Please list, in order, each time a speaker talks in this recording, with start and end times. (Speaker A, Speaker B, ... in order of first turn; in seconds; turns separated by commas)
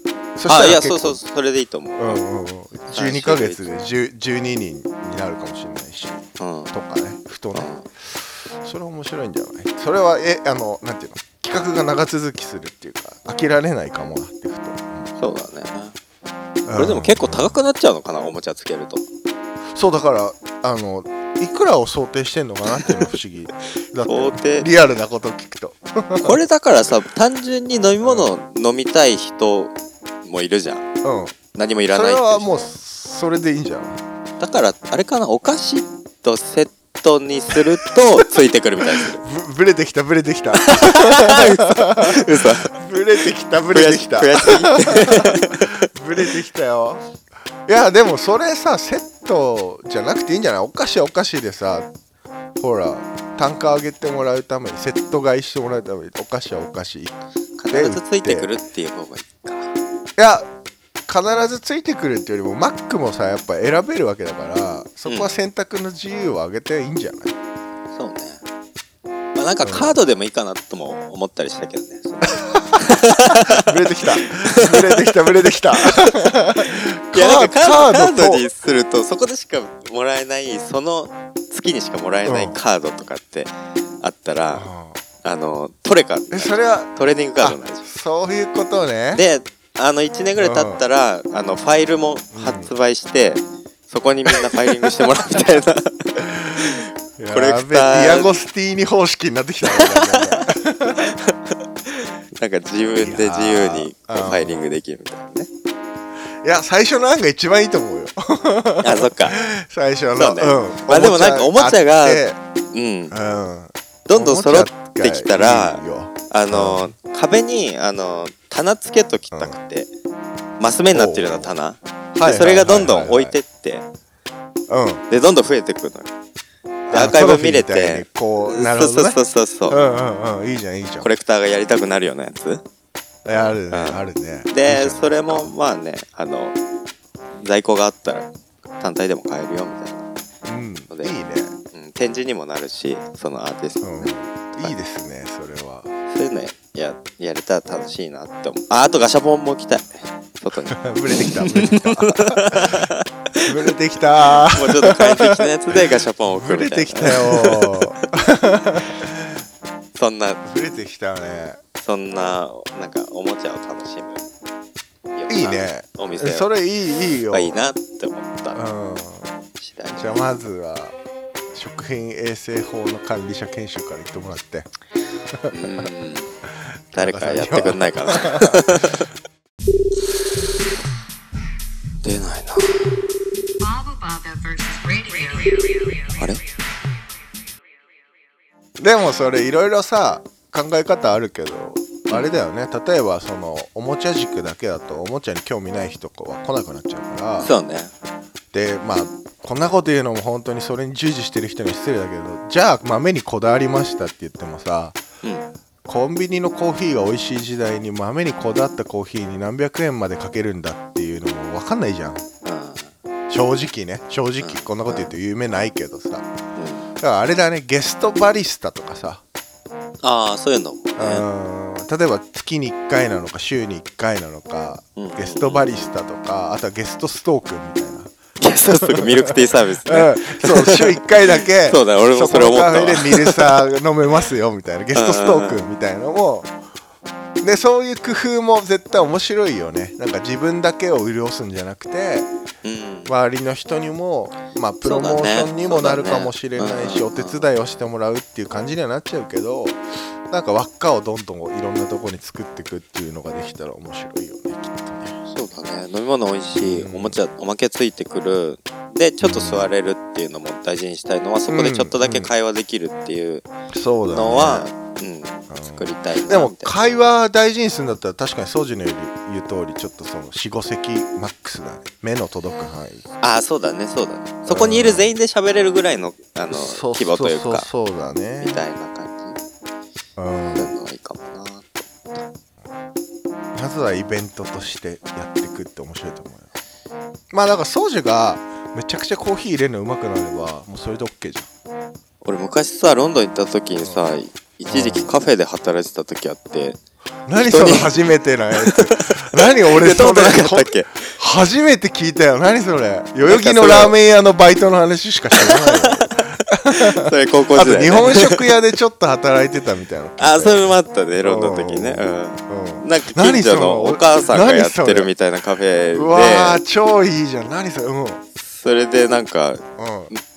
Speaker A: 0.4-1.2, Speaker B: 0.5-2.2, Speaker A: 2.0-15.1, Speaker B: 2.9-3.7, Speaker B: 6.4-6.7, Speaker B: 7.5-7.8, Speaker B: 15.2-15.9, Speaker A: 16.7-17.6, Speaker B: 16.8-19.1, Speaker A: 19.8-26.4, Speaker B: 22.7-23.0, Speaker B: 24.0-24.7, Speaker B: 26.2-30.9, Speaker A: 28.0-28.3, Speaker A: 31.0-31.4, Speaker B: 31.5-32.7, Speaker A: 31.9-34.0, Speaker B: 34.4-39.2, Speaker A: 37.5-38.0, Speaker A: 39.0-47.0, Speaker B: 40.5-42.7, Speaker B: 43.7-46.3, Speaker A: 47.7-51.9, Speaker A: 52.6-57.2, Speaker B: 57.6-59.7, Speaker A: 57.7-58.5, Speaker A: 60.2-60.5, Speaker A: 61.1-67.3, Speaker B: 65.1-65.3, Speaker B: 67.9-68.4, Speaker B: 69.4-75.2, Speaker A: 69.6-70.0, Speaker A: 72.4-72.7, Speaker A: 73.5-78.5, Speaker B: 75.7-84.7, Speaker A: 82.3-82.6, Speaker A: 84.5-85.0, Speaker B: 85.2-87.8, Speaker A: 86.3-86.9, Speaker A: 87.4-89.2, Speaker B: 89.2-98.4, Speaker A: 90.4-90.8, Speaker A: 92.3-92.7, Speaker A: 94.3-95.0, Speaker A: 96.4-101.0, Speaker B: 99.7-105.5, Speaker A: 103.0-104.6, Speaker A: 106.4-112.4, Speaker B: 108.8-109.4, Speaker B: 110.1-113.2, Speaker A: 113.1-116.9, Speaker B: 114.1-119.9, Speaker A: 119.3-119.6, Speaker B: 120.6-123.9, Speaker A: 120.9-121.5, Speaker A: 122.1-123.4, Speaker A: 124.7-125.0, Speaker B: 125.1-126.1, Speaker A: 126.9-131.1, Speaker B: 126.9-129.8, Speaker B: 131.0-132.6, Speaker A: 133.2-135.5, Speaker B: 133.7-136.6, Speaker B: 137.4-140.1, Speaker A: 140.4-141.5, Speaker B: 140.9-141.2, Speaker B: 141.7-144.7, Speaker A: 143.8-145.9, Speaker B: 146.1-153.7, Speaker A: 150.7-152.9, Speaker A: 153.5-159.4, Speaker B: 154.5-158.1, Speaker B: 160.0-160.4, Speaker A: 160.4-161.6, Speaker B: 161.8-164.2, Speaker B: 165.2-166.5, Speaker A: 165.3-167.6, Speaker B: 167.3-168.6, Speaker A: 168.5-169.3, Speaker B: 169.6-170.4, Speaker A: 169.9-170.9, Speaker A: 171.5-174.7, Speaker A: 175.3-175.9, Speaker B: 175.5-176.3, Speaker A: 176.9-178.8, Speaker B: 176.9-179.1, Speaker B: 182.0-182.9, Speaker C: 183.6-186.3, Speaker A: 188.8-197.5, Speaker B: 192.1-192.4, Speaker B: 197.4-197.9, Speaker A: 198.5-205.0, Speaker A: 205.9-212.2, Speaker B: 212.4-212.9, Speaker A: 213.3-216.3, Speaker B: 214.4-215.1, Speaker B: 216.6-216.9, Speaker A: 217.0-219.2, Speaker B: 220.0-221.3, Speaker A: 221.0-228.1, Speaker B: 225.0-225.9, Speaker B: 228.4-233.5, Speaker A: 228.9-229.3, Speaker A: 229.9-236.5, Speaker B: 234.9-235.7, Speaker A: 237.4-242.3, Speaker B: 242.6-243.2, Speaker A: 243.1-255.2, Speaker B: 244.8-247.5, Speaker B: 255.3-263.5, Speaker A: 256.6-257.2, Speaker A: 259.2-259.7, Speaker A: 261.5-262.3, Speaker A: 263.7-264.7, Speaker B: 264.1-266.8, Speaker A: 265.5-273.1, Speaker B: 273.2-277.7, Speaker A: 274.5-275.1, Speaker A: 276.5-278.7, Speaker B: 278.4-279.4, Speaker A: 280.2-280.7, Speaker B: 280.6-282.2, Speaker A: 283.6-286.5, Speaker A: 287.3-291.5, Speaker B: 292.2-296.8, Speaker A: 293.8-294.1, Speaker A: 294.7-295.1, Speaker A: 297.3-310.7, Speaker B: 297.4-297.9, Speaker B: 298.6-301.0, Speaker B: 303.2-304.0, Speaker B: 305.4-308.5, Speaker B: 310.2-316.6, Speaker A: 311.2-315.1, Speaker A: 315.9-318.2, Speaker B: 318.4-320.2, Speaker A: 319.8-320.1